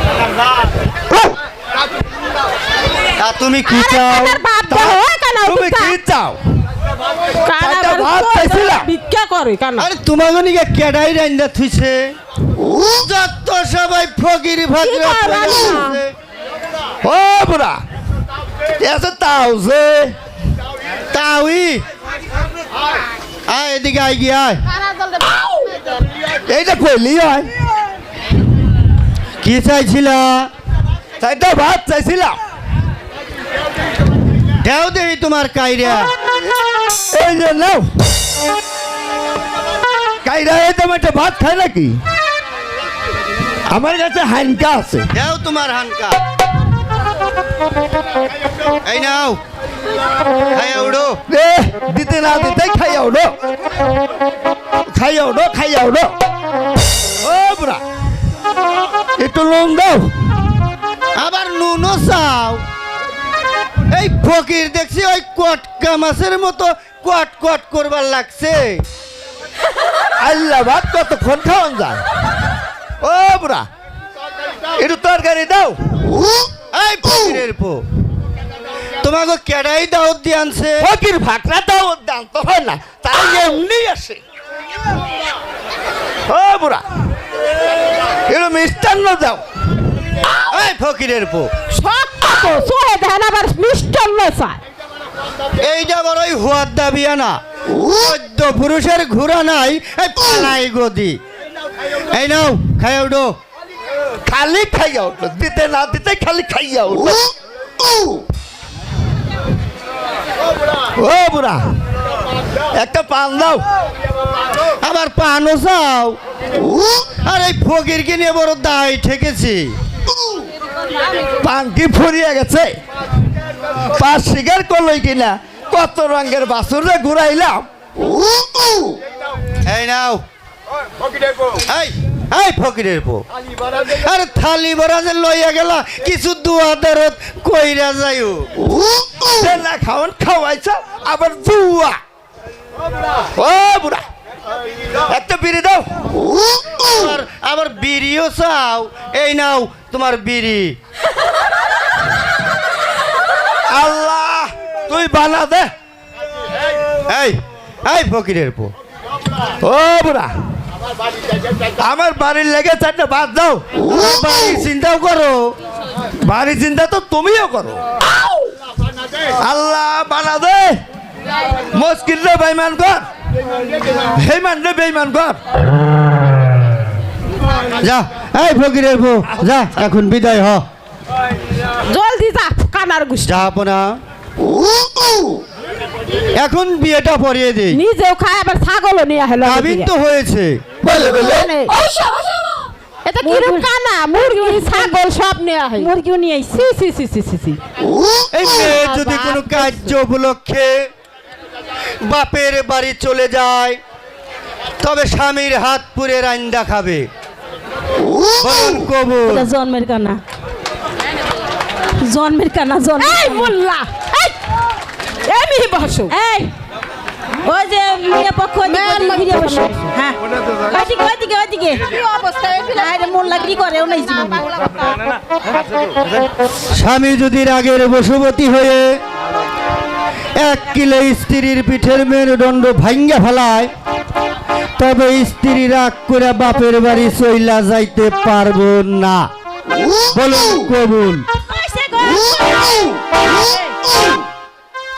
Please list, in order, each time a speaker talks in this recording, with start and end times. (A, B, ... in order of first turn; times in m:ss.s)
0:03.2-0:04.4 A
0:03.7-0:06.0 B
0:04.6-0:06.4 C
0:07.4-0:09.9 B
0:07.6-0:08.9 C
0:09.8-0:12.0 A
0:12.9-0:16.1 A
0:14.8-0:16.0 B
0:17.0-0:17.8 C
0:18.8-0:20.0 C
0:21.1-0:21.8 A
0:23.5-0:24.6 A
0:26.5-0:27.4 C
0:29.4-0:30.5 A
0:31.2-0:32.4 C
0:34.6-0:36.1 A
0:37.1-0:37.8 C
0:40.2-0:42.0 C
0:43.7-0:45.1 C
0:45.1-0:46.2 A
0:48.8-0:49.4 A
0:50.5-0:51.2 A
0:51.3-0:53.3 C
0:54.9-0:56.1 C
0:57.2-0:57.8 C
0:59.2-1:00.1 C
1:01.2-1:02.6 A
1:03.9-1:08.8 A
1:10.2-1:12.0 C
1:13.0-1:13.7 C
1:14.8-1:15.8 C
1:16.7-1:17.8 A
1:19.0-1:20.9 A
1:20.8-1:24.2 C
1:26.3-1:26.8 C
1:28.3-1:29.4 C
1:30.5-1:31.5 A
1:31.7-1:34.6 B
1:35.6-1:41.2 A
1:42.1-1:43.3 A
1:44.2-1:47.3 C
1:51.0-1:51.6 C
1:52.8-1:53.6 C
1:54.8-1:56.2 A
1:57.2-1:59.7 A
2:01.4-2:02.7 C
2:03.9-2:07.6 C
2:09.6-2:10.2 A
2:11.7-2:13.2 A
2:13.8-2:18.5 A
2:19.2-2:22.0 C
2:23.4-2:24.0 C
2:25.1-2:25.8 C
2:26.8-2:30.8 A
2:33.7-2:35.7 C
2:37.1-2:38.7 A
2:39.6-2:40.3 C
2:41.8-2:43.6 C
2:43.8-2:45.5 A
2:46.2-2:47.8 C
2:49.4-2:50.8 C
2:51.7-2:53.0 C
2:54.1-2:55.4 C
2:57.8-3:00.6 A
3:01.8-3:03.3 B
3:03.2-3:04.0 A
3:06.4-3:07.8 A
3:07.9-3:09.7 B
3:09.4-3:10.6 A
3:10.9-3:11.5 C
3:10.9-3:11.3 D
3:10.9-3:15.9 B
3:13.2-3:14.9 D
3:15.8-3:16.8 D
3:16.9-3:17.6 B
3:18.3-3:20.8 A
3:18.6-3:19.9 B
3:22.0-3:23.8 A
3:24.8-3:27.0 A
3:28.4-3:29.5 A
3:29.3-3:30.2 D
3:32.0-3:33.5 D
3:33.0-3:34.3 B
3:35.2-3:36.1 B
3:36.1-3:36.5 D
3:37.4-3:42.0 D
3:38.6-3:39.9 B
3:41.9-3:43.3 B
3:42.6-3:44.5 D
3:44.0-3:45.0 B
3:46.7-3:49.0 A
3:50.4-3:53.7 A
3:54.8-3:59.2 A
4:00.1-4:01.2 A
4:01.5-4:02.8 D